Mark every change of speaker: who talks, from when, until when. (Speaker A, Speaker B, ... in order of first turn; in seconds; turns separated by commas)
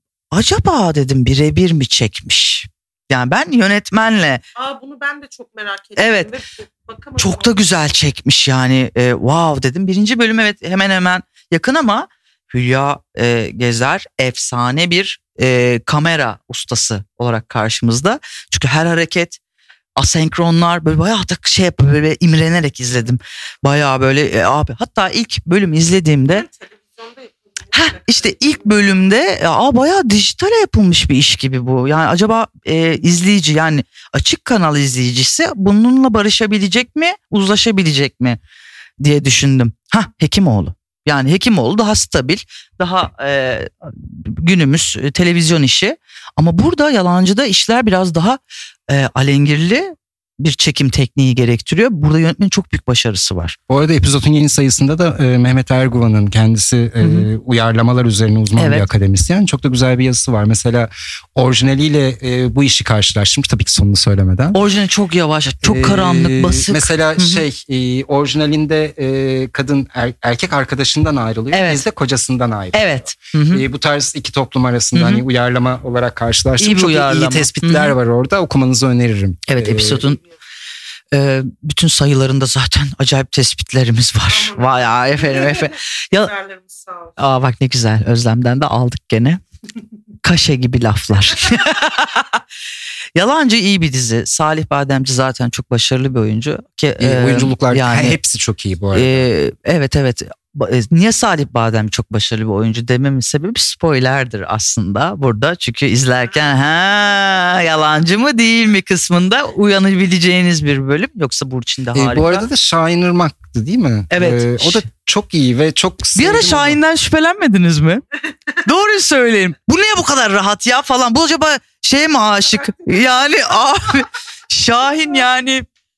Speaker A: 0.3-4.4, Speaker B: 4.5-7.6, Speaker A: 6.0-6.3, Speaker A: 7.2-19.4, Speaker A: 19.9-26.4, Speaker B: 26.3-28.5, Speaker A: 27.7-38.4, Speaker A: 39.0-53.5, Speaker C: 53.7-64.6, Speaker A: 57.0-57.3, Speaker A: 58.5-58.9, Speaker A: 64.5-67.4, Speaker C: 65.6-80.0, Speaker A: 71.5-71.8, Speaker A: 72.7-73.6, Speaker A: 74.9-75.2, Speaker A: 76.6-78.0, Speaker A: 79.5-80.2, Speaker A: 81.1-86.3, Speaker B: 84.3-87.2, Speaker A: 87.2-89.4, Speaker A: 90.2-92.4, Speaker A: 93.1-98.2, Speaker C: 97.0-99.2, Speaker A: 98.9-112.5, Speaker C: 111.9-116.8, Speaker A: 114.1-114.8, Speaker A: 116.2-118.0, Speaker A: 118.6-125.6